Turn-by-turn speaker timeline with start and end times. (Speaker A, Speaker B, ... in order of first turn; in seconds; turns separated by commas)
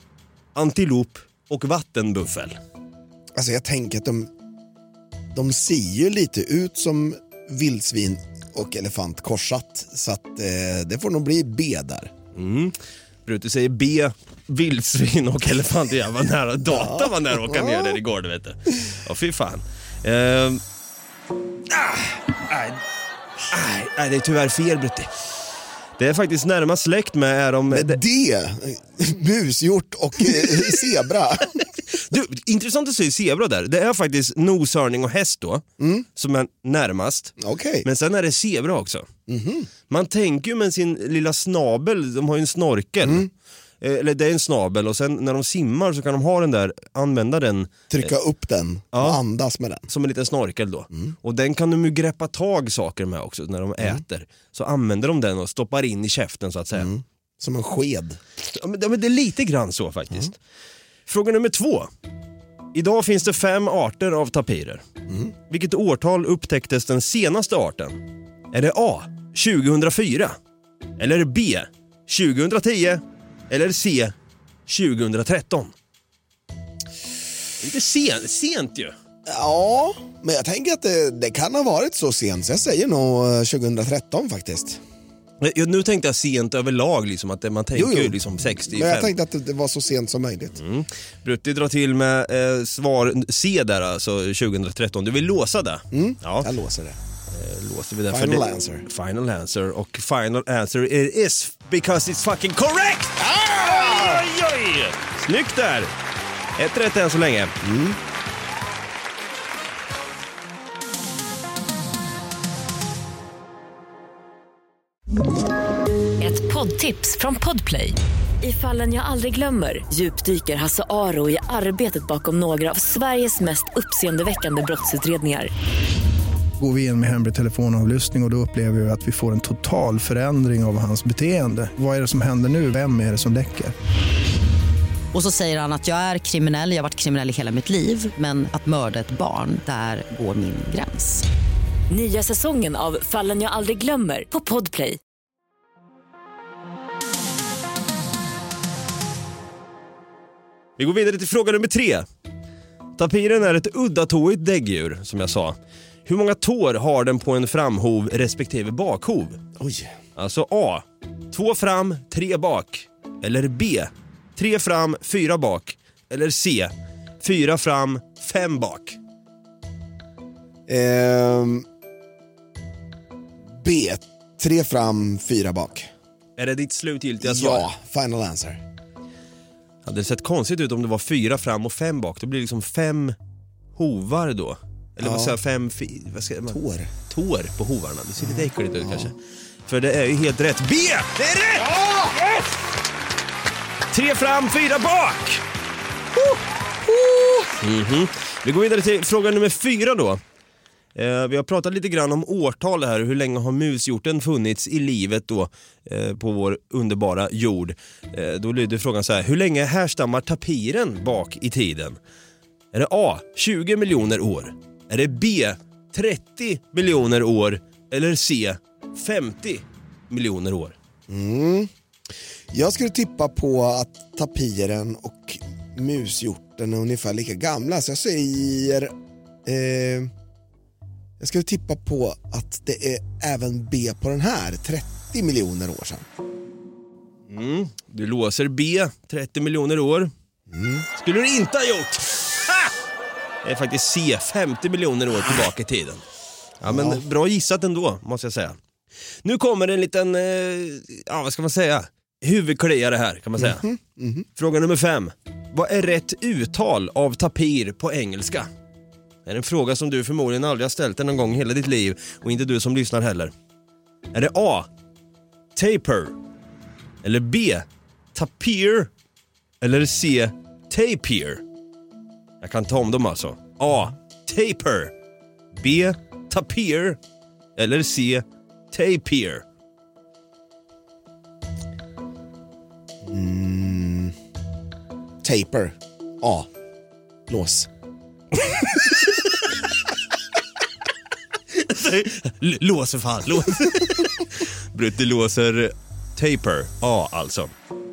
Speaker A: 0.5-2.6, Speaker B: 3.3-4.3, Speaker B: 5.3-12.1, Speaker A: 12.3-20.6, Speaker B: 16.6-18.0, Speaker A: 21.7-22.8, Speaker A: 23.5-25.1, Speaker A: 26.0-28.0, Speaker B: 27.7-31.7, Speaker A: 31.9-35.6, Speaker B: 35.8-36.0, Speaker A: 36.1-39.1, Speaker B: 37.4-37.9, Speaker B: 39.3-39.7, Speaker A: 39.9-43.3, Speaker B: 43.0-43.3, Speaker A: 43.8-48.1, Speaker B: 47.9-49.9, Speaker A: 48.9-49.2, Speaker A: 49.9-56.9, Speaker B: 56.7-58.2, Speaker A: 58.5-60.4, Speaker A: 61.1-61.9, Speaker A: 62.7-64.8, Speaker B: 65.1-65.3, Speaker A: 65.5-70.4, Speaker A: 71.0-74.1, Speaker A: 74.7-75.7, Speaker A: 77.6-78.9, Speaker B: 79.2-84.8, Speaker A: 85.4-89.1, Speaker B: 87.7-90.6, Speaker A: 90.6-96.5, Speaker B: 95.9-97.0, Speaker A: 97.3-105.9, Speaker B: 98.1-98.8, Speaker B: 103.2-104.2, Speaker A: 106.6-107.5, Speaker B: 107.6-108.0, Speaker C: 116.2-125.5, Speaker D: 126.6-133.7, Speaker E: 135.1-141.2, Speaker C: 141.9-145.0, Speaker A: 150.8-152.1, Speaker A: 153.0-159.4, Speaker B: 159.6-159.9, Speaker A: 160.2-169.0, Speaker B: 170.7-171.7, Speaker B: 173.5-175.9, Speaker A: 176.4-177.7, Speaker B: 177.2-178.6, Speaker A: 179.8-183.1, Speaker A: 183.7-191.8, Speaker B: 185.0-185.4, Speaker B: 186.5-186.9, Speaker B: 188.2-189.1, Speaker B: 191.6-192.5, Speaker A: 193.9-195.4, Speaker B: 196.1-197.5, Speaker A: 197.6-200.2, Speaker A: 200.9-212.0, Speaker A: 212.7-220.8, Speaker B: 221.1-221.7, Speaker B: 222.5-228.9, Speaker B: 229.4-230.1, Speaker B: 231.2-236.1, Speaker A: 237.3-240.1, Speaker B: 240.5-240.8, Speaker A: 240.9-242.7, Speaker A: 243.4-246.0, Speaker A: 246.6-248.6, Speaker B: 246.6-247.0, Speaker A: 249.2-253.7, Speaker B: 253.4-254.3, Speaker A: 254.3-258.5, Speaker A: 259.2-263.3, Speaker A: 264.1-264.7, Speaker A: 265.6-266.1, Speaker A: 267.0-268.9, Speaker A: 269.6-271.4, Speaker A: 272.4-274.9, Speaker A: 275.6-277.0, Speaker A: 277.6-279.4, Speaker B: 283.0-284.1, Speaker B: 285.2-286.5, Speaker B: 287.3-287.7, Speaker A: 291.5-297.5